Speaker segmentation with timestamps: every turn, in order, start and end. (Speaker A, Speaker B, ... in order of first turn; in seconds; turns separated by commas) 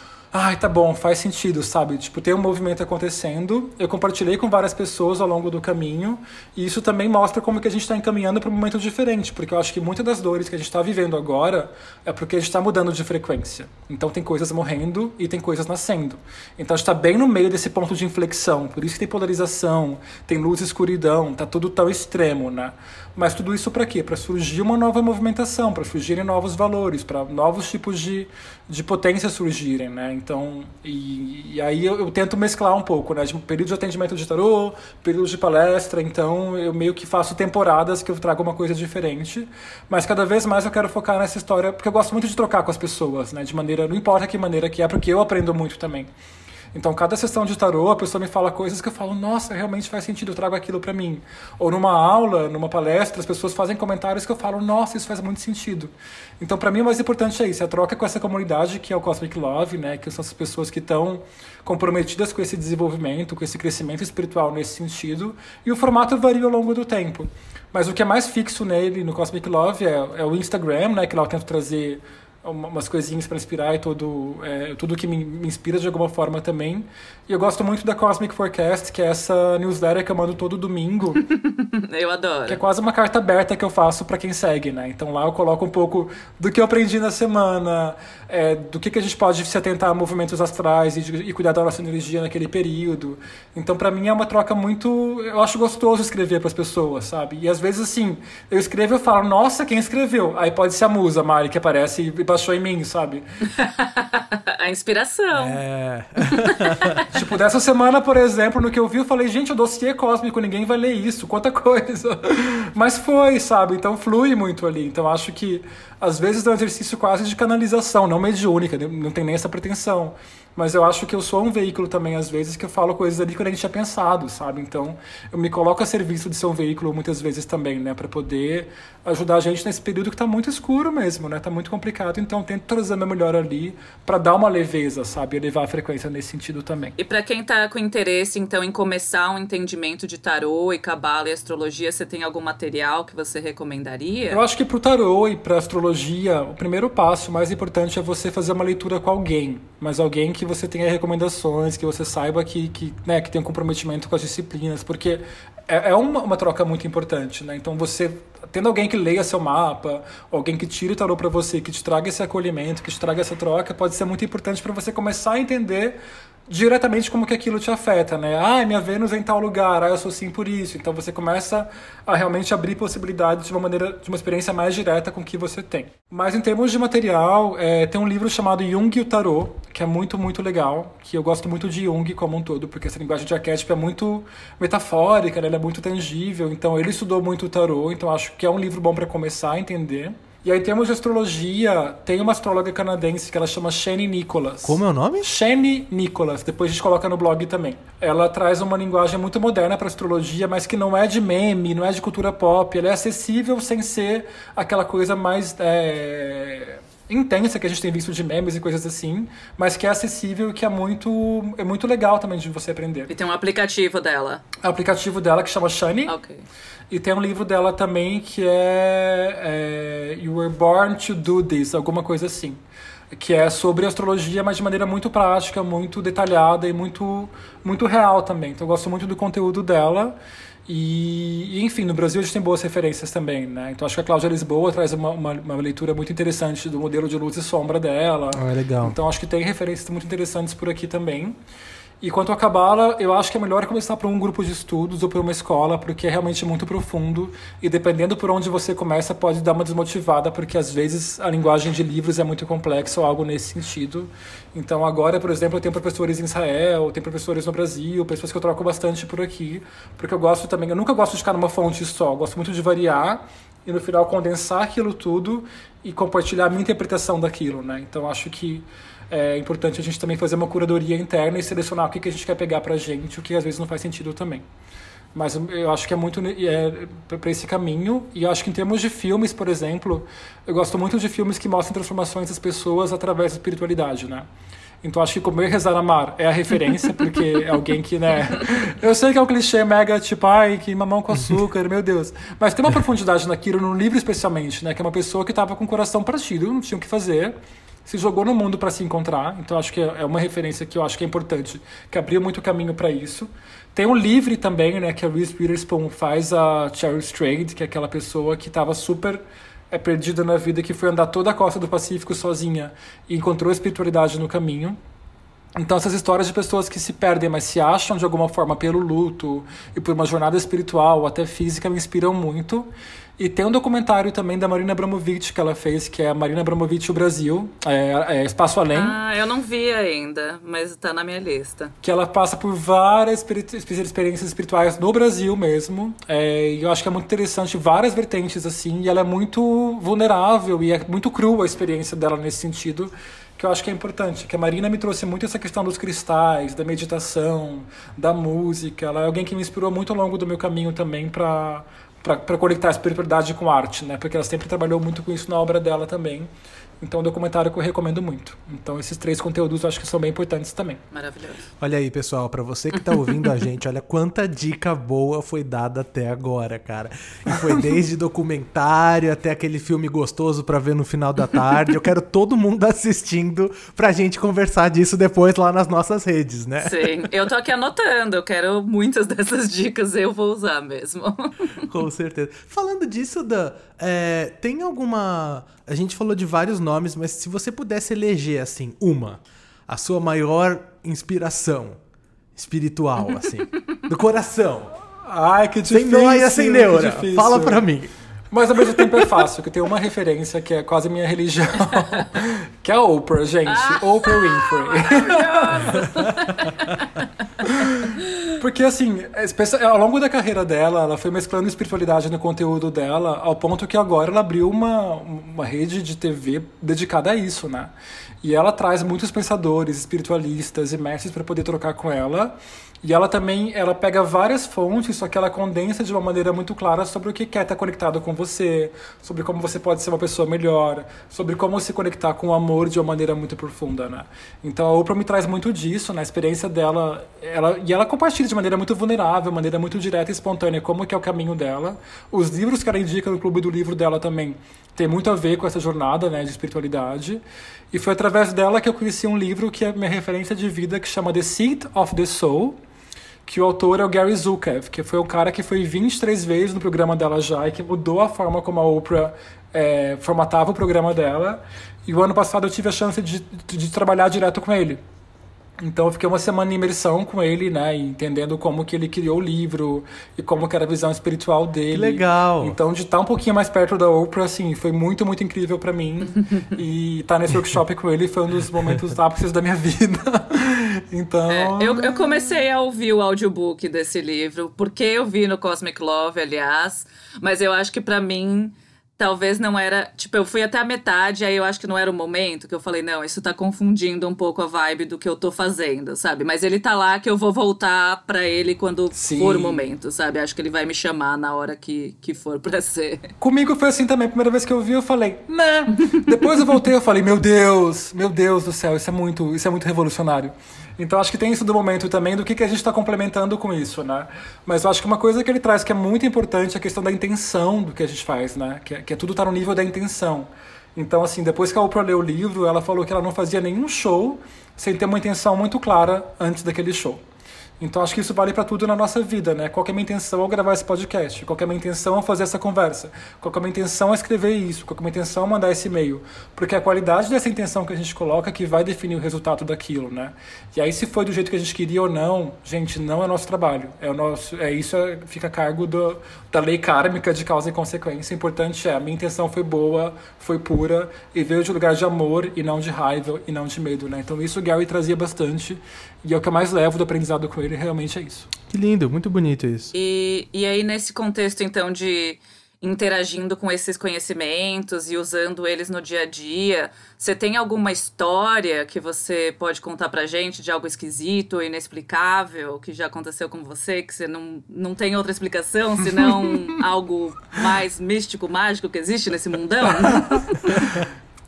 Speaker A: 0.3-46.1, Speaker A: 46.7-81.2, Speaker B: 81.2-82.6, Speaker A: 82.5-103.2, Speaker B: 103.5-105.6, Speaker C: 105.3-107.0, Speaker B: 106.3-107.0, Speaker A: 107.1-136.9, Speaker B: 137.0-144.4, Speaker A: 144.3-166.0, Speaker A: 166.5-213.1, Speaker C: 194.6-195.3, Speaker B: 213.1-214.4, Speaker A: 214.6-216.1, Speaker B: 216.1-216.4, Speaker A: 216.9-222.6, Speaker A: 223.1-230.2, Speaker A: 230.7-241.3, Speaker C: 238.3-239.0, Speaker A: 242.0-274.4, Speaker A: 275.1-284.3, Speaker A: 284.8-297.3, Speaker A: 297.9-314.8, Speaker A: 315.6-329.0, Speaker B: 328.7-331.7, Speaker A: 331.8-356.3, Speaker A: 356.8-360.8, Speaker B: 360.9-361.4, Speaker C: 361.6-377.0, Speaker A: 367.3-367.6, Speaker B: 376.6-381.6, Speaker C: 381.6-391.8, Speaker C: 392.3-394.7, Speaker A: 395.0-397.6, Speaker C: 395.7-397.9, Speaker A: 398.3-406.0, Speaker C: 398.6-399.2, Speaker B: 403.5-407.1, Speaker A: 407.4-447.2, Speaker A: 447.7-452.6, Speaker A: 453.2-464.8, Speaker A: 465.6-482.4, Speaker C: 471.7-472.6, Speaker B: 481.3-503.1, Speaker A: 498.9-499.6, Speaker A: 503.2-527.0, Speaker A: 527.6-558.3, Speaker C: 558.5-559.7, Speaker B: 559.7-580.8, Speaker A: 580.0-580.8